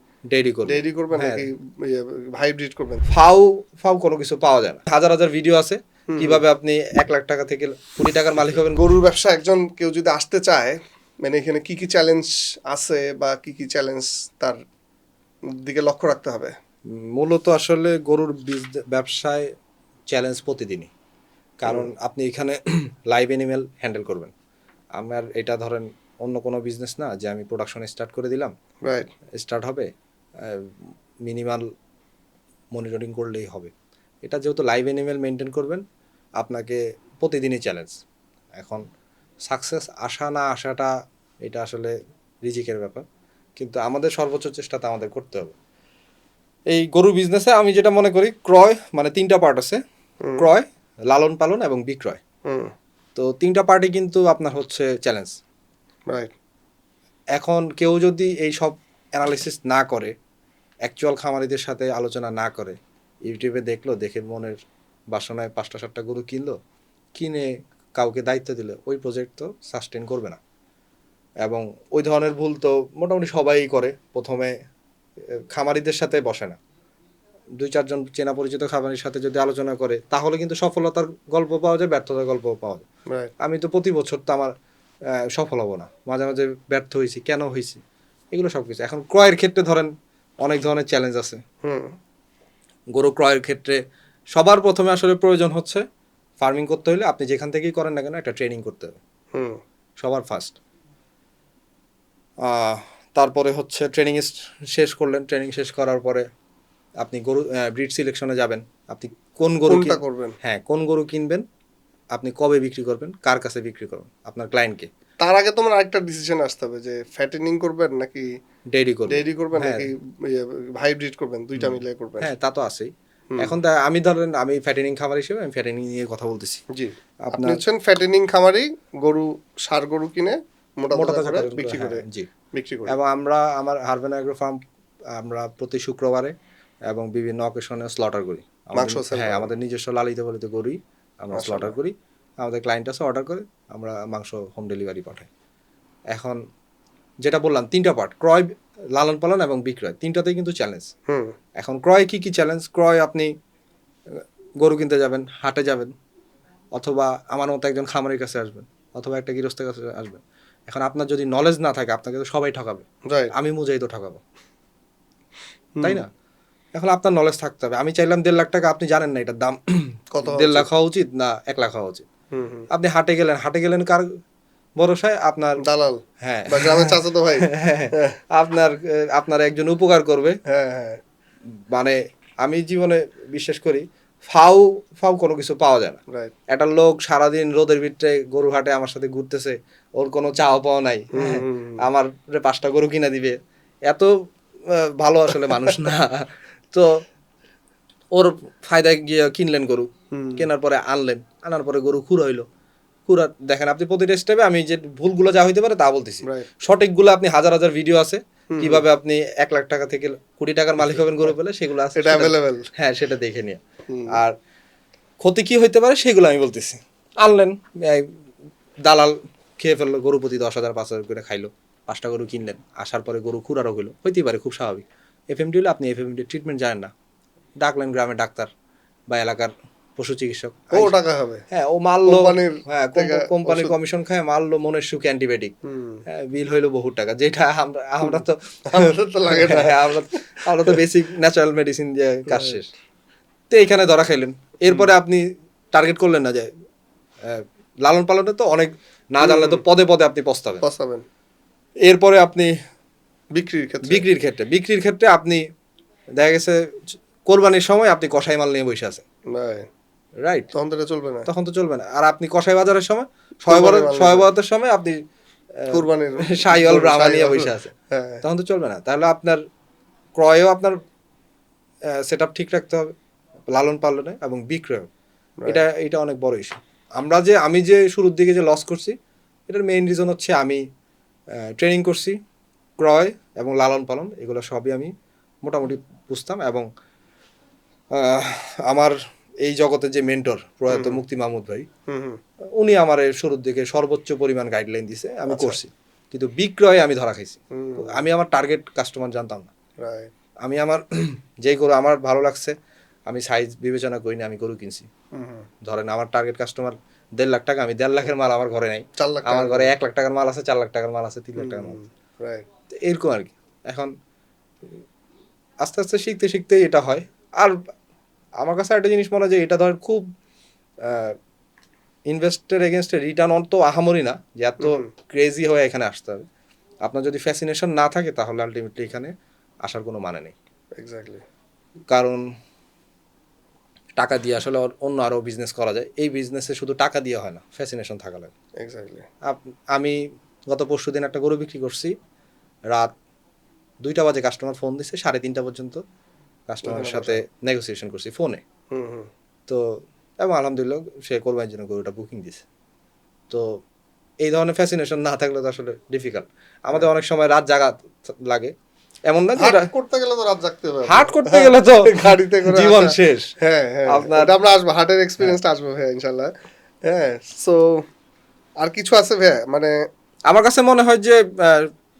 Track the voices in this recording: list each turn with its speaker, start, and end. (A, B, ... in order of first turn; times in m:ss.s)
0:00.3-0:01.4 A
0:00.7-0:03.0 B
0:03.1-0:08.8 A
0:06.1-0:06.4 B
0:08.7-0:14.6 B
0:15.5-0:16.5 B
0:16.9-0:19.4 A
0:20.1-0:20.9 A
0:21.6-0:24.3 A
0:25.0-0:28.5 A
0:28.8-0:29.1 B
0:29.4-0:29.9 A
0:30.4-0:30.7 A
0:31.2-0:31.6 A
0:32.7-0:33.7 A
0:34.2-0:35.8 A
0:36.4-0:38.0 A
0:38.5-0:38.8 A
0:39.5-0:40.9 A
0:41.4-0:43.0 A
0:43.6-0:45.5 A
0:46.7-0:49.8 A
0:50.4-0:52.2 A
0:52.4-0:52.7 B
0:53.2-0:55.3 A
0:57.4-1:00.1 A
1:00.8-1:02.8 A
1:03.3-1:04.5 A
1:05.1-1:06.6 A
1:07.1-1:10.4 A
1:11.4-1:14.5 A
1:15.5-1:16.6 A
1:17.6-1:22.8 A
1:23.4-1:24.5 A
1:25.2-1:27.8 A
1:28.3-1:29.9 A
1:30.4-1:31.4 A
1:31.6-1:31.9 B
1:32.9-1:33.8 A
1:34.3-1:35.8 A
1:36.4-1:39.0 A
1:39.3-1:39.6 B
1:40.0-1:40.6 A
1:42.4-1:46.2 A
1:47.0-1:51.4 A
1:49.7-1:50.4 B
1:52.1-1:54.9 A
1:55.2-1:58.3 B
1:58.7-1:59.9 A
1:59.1-2:02.3 B
2:01.6-2:06.6 A
2:06.7-2:13.0 B
2:07.2-2:07.6 A
2:10.9-2:12.3 A
2:12.9-2:14.6 A
2:15.1-2:16.3 A
2:16.9-2:25.3 A
2:18.7-2:19.5 B
2:21.3-2:21.7 B
2:26.1-2:26.4 A
2:27.2-2:30.9 A
2:31.1-2:31.3 B
2:31.6-2:33.3 A
2:34.1-2:35.9 A
2:36.7-2:44.2 A
2:45.8-2:46.0 B
2:45.8-2:46.1 A
2:46.7-2:52.0 A
2:50.1-2:50.7 B
2:52.3-2:52.7 B
2:52.7-2:54.0 A
2:54.8-2:55.6 A
2:55.6-2:58.2 B
2:56.2-3:00.4 A
3:00.4-3:01.0 B
3:01.7-3:14.1 A
3:06.1-3:06.3 B
3:11.1-3:11.8 B
3:14.7-3:17.0 A
3:18.1-3:22.4 A
3:20.1-3:20.4 B
3:23.1-3:34.3 A
3:28.5-3:28.8 B
3:32.0-3:32.7 B
3:33.9-3:34.2 B
3:35.2-3:38.1 A
3:38.8-3:46.9 A
3:47.6-3:48.5 A
3:49.1-3:50.9 A
3:50.7-3:51.4 B
3:51.5-3:55.5 A
3:52.0-3:53.7 B
3:55.6-3:56.0 B
3:56.1-4:02.7 A
3:58.7-3:59.9 B
4:03.5-4:06.5 A
4:07.2-4:10.6 A
4:09.2-4:09.6 B
4:10.6-4:11.0 B
4:11.8-4:12.5 A
4:13.3-4:14.0 B
4:13.8-4:15.4 A
4:16.2-4:19.0 A
4:19.3-4:19.6 B
4:20.2-4:20.5 A
4:20.5-4:21.3 B
4:21.2-4:25.0 A
4:23.5-4:24.3 B
4:25.6-4:27.7 A
4:25.7-4:28.2 B
4:28.2-4:29.4 A
4:30.2-4:30.8 A
4:31.9-4:32.9 A
4:33.5-4:34.9 A
4:35.5-4:38.9 A
4:39.5-4:40.6 A
4:41.4-4:42.2 A
4:42.8-4:44.9 A
4:45.4-4:46.6 A
4:47.9-4:51.6 A
4:50.7-4:51.0 B
4:51.9-4:52.2 B
4:52.6-4:59.5 A
4:55.3-4:55.6 B
4:57.5-4:58.0 B
4:59.8-5:00.1 B
5:00.4-5:02.5 A
5:03.1-5:04.9 A
5:05.1-5:05.5 B
5:05.6-5:11.8 A
5:09.0-5:09.7 B
5:11.4-5:12.4 B
5:12.8-5:13.9 A
5:15.6-5:17.6 A
5:18.4-5:20.0 A
5:20.8-5:21.2 A
5:22.1-5:26.2 A
5:24.6-5:24.8 B
5:26.8-5:29.1 A
5:29.6-5:30.3 A
5:30.8-5:31.2 B
5:31.9-5:32.2 A
5:34.0-5:38.3 A
5:38.6-5:39.0 B
5:39.2-5:40.0 A
5:40.5-5:41.9 A
5:43.8-5:45.8 A
5:46.5-5:48.4 A
5:46.6-5:47.2 B
5:48.7-5:49.1 B
5:50.2-5:52.4 A
5:53.3-5:53.6 A
5:54.2-5:58.5 A
5:59.1-5:59.7 A
5:59.4-6:06.3 B
6:00.9-6:03.3 A
6:03.9-6:04.3 A
6:06.8-6:07.8 B
6:08.6-6:09.7 B
6:10.3-6:11.7 A